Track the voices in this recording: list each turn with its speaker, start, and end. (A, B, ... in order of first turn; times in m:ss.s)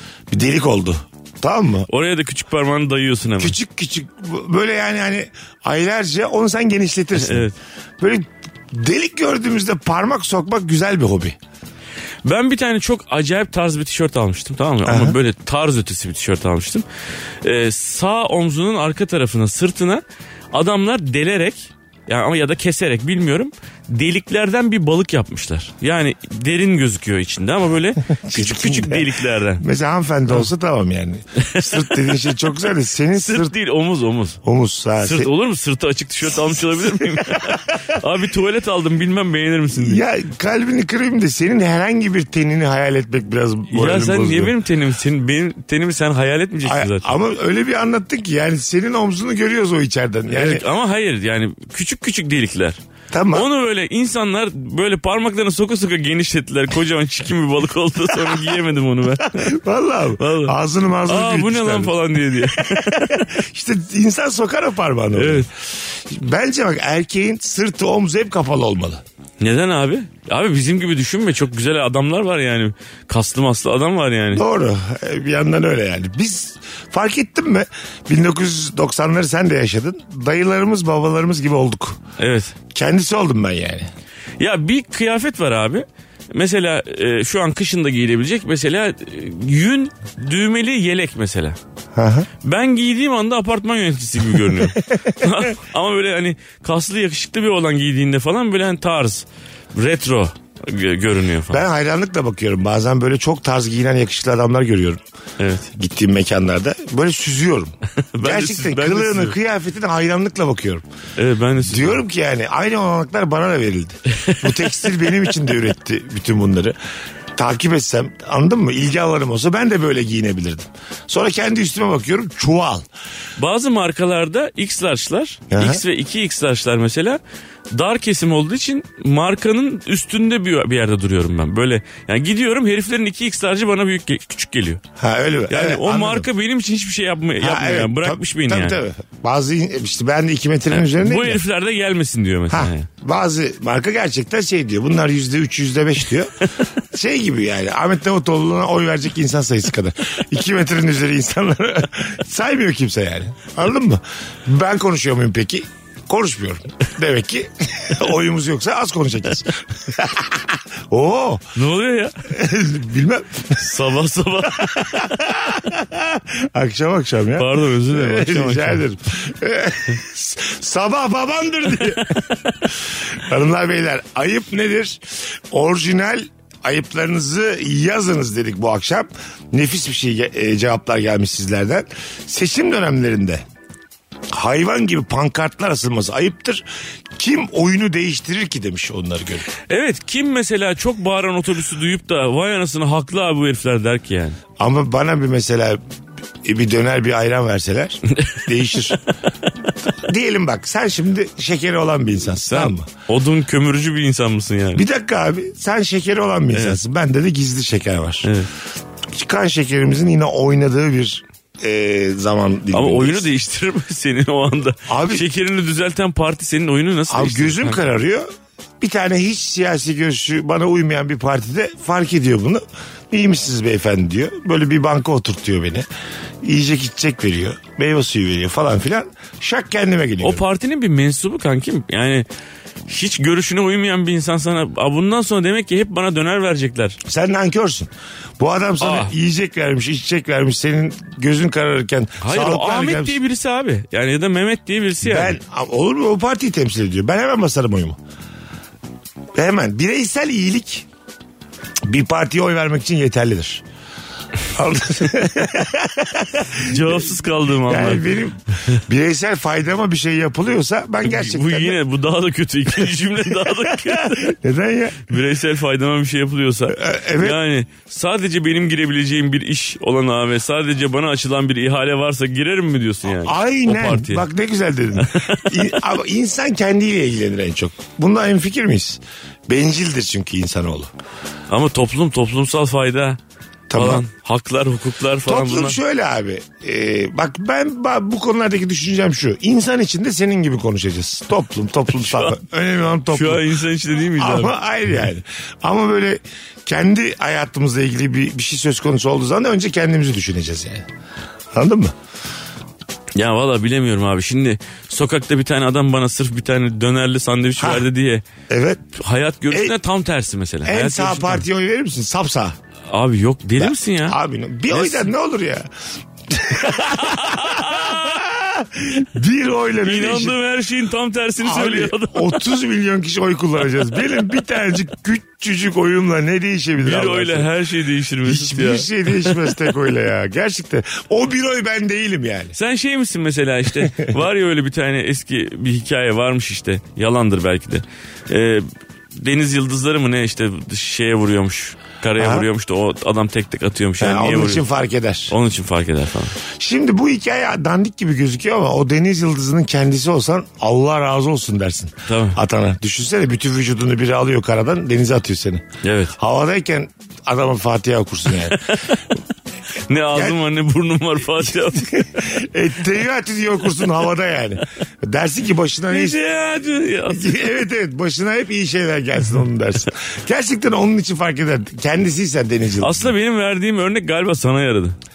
0:00.3-0:01.9 A
0:01.9-0:03.6 B
0:03.4-0:07.5 A
0:07.2-0:07.6 B
0:08.0-0:11.4 A
0:12.2-0:16.8 B
0:14.8-0:15.2 A
0:17.4-0:29.6 B
0:28.1-0:33.5 A
0:31.4-0:32.3 B
0:33.2-0:34.4 B
0:34.4-0:35.3 A
0:35.0-0:40.0 B
0:36.9-0:37.7 A
0:39.8-0:44.5 A
0:43.7-0:47.1 B
0:46.6-0:50.6 A
0:50.3-0:52.8 B
0:53.1-0:53.5 A
0:53.3-0:59.6 B
0:58.1-0:58.6 A
0:59.2-1:09.0 A
1:00.2-1:00.5 B
1:01.1-1:03.3 B
1:05.1-1:05.5 B
1:09.4-1:14.4 B
1:14.3-1:22.0 A
1:22.2-1:22.5 B
1:22.7-1:23.9 A
1:24.4-1:31.6 B
1:32.0-1:32.3 A
1:32.4-1:41.6 B
1:41.5-1:45.0 A
1:45.4-1:45.7 B
1:45.8-1:50.8 A
1:48.1-1:49.4 B
1:51.2-1:52.0 B
1:51.6-1:56.8 A
1:57.4-2:02.9 A
2:03.4-2:07.2 B
2:05.5-2:05.8 A
2:07.7-2:14.8 B
2:15.0-2:16.3 A
2:15.5-2:18.8 B
2:17.4-2:21.4 A
2:20.7-2:22.9 B
2:22.5-2:26.3 A
2:26.9-2:41.5 A
2:41.6-2:42.3 B
2:42.3-2:43.6 A
2:43.6-2:44.8 B
2:44.5-3:03.4 A
2:47.4-2:48.8 B
3:04.3-3:06.6 A
3:07.2-3:09.5 A
3:09.7-3:14.4 B
3:14.6-3:15.8 A
3:16.4-3:19.0 A
3:18.2-3:18.4 B
3:19.8-3:22.9 A
3:22.5-3:24.8 B
3:24.8-3:28.3 A
3:26.5-3:26.8 B
3:28.2-3:28.5 B
3:29.1-3:33.3 A
3:32.7-3:37.8 B
3:34.9-3:35.2 A
3:37.1-3:38.3 A
3:38.8-3:45.9 A
3:46.4-3:50.4 A
3:50.2-3:52.3 B
3:52.9-3:57.0 B
3:57.0-4:03.2 A
3:58.8-3:59.2 B
4:02.2-4:05.4 B
4:05.0-4:08.0 A
4:09.3-4:10.9 A
4:11.9-4:13.6 A
4:14.5-4:17.1 A
4:16.6-4:18.1 B
4:17.6-4:21.8 A
4:21.0-4:24.3 B
4:23.4-4:25.1 A
4:25.0-4:34.3 B
4:26.7-4:27.4 A
4:33.1-4:40.9 A
4:35.0-4:35.8 B
4:41.5-4:43.2 B
4:43.7-4:44.0 A
4:43.8-4:45.8 B
4:45.3-4:53.6 A
4:52.1-4:52.4 B
4:53.1-4:54.6 B
4:54.1-5:00.9 A
5:01.5-5:02.0 A
5:03.2-5:08.2 B
5:07.6-5:07.8 A
5:08.5-5:08.9 A
5:09.0-5:11.4 B
5:09.5-5:09.8 A
5:10.6-5:12.6 A
5:12.9-5:14.2 B
5:13.6-5:15.7 A
5:14.7-5:15.1 B
5:16.3-5:20.4 A
5:16.6-5:18.2 B
5:19.8-5:22.4 B
5:21.4-5:27.5 A
5:26.8-5:29.7 B
5:28.2-5:32.6 A
5:32.5-5:44.7 B
5:33.8-5:34.1 A
5:42.2-5:42.5 A
5:44.0-5:45.3 A
5:45.3-5:46.4 B
5:46.5-5:58.7 A
5:52.1-5:52.4 B
5:55.8-5:56.2 B
5:58.5-5:59.0 B
5:59.9-6:01.9 B
6:01.4-6:06.2 A
6:05.9-6:07.4 B
6:07.1-6:13.1 A
6:12.8-6:15.0 B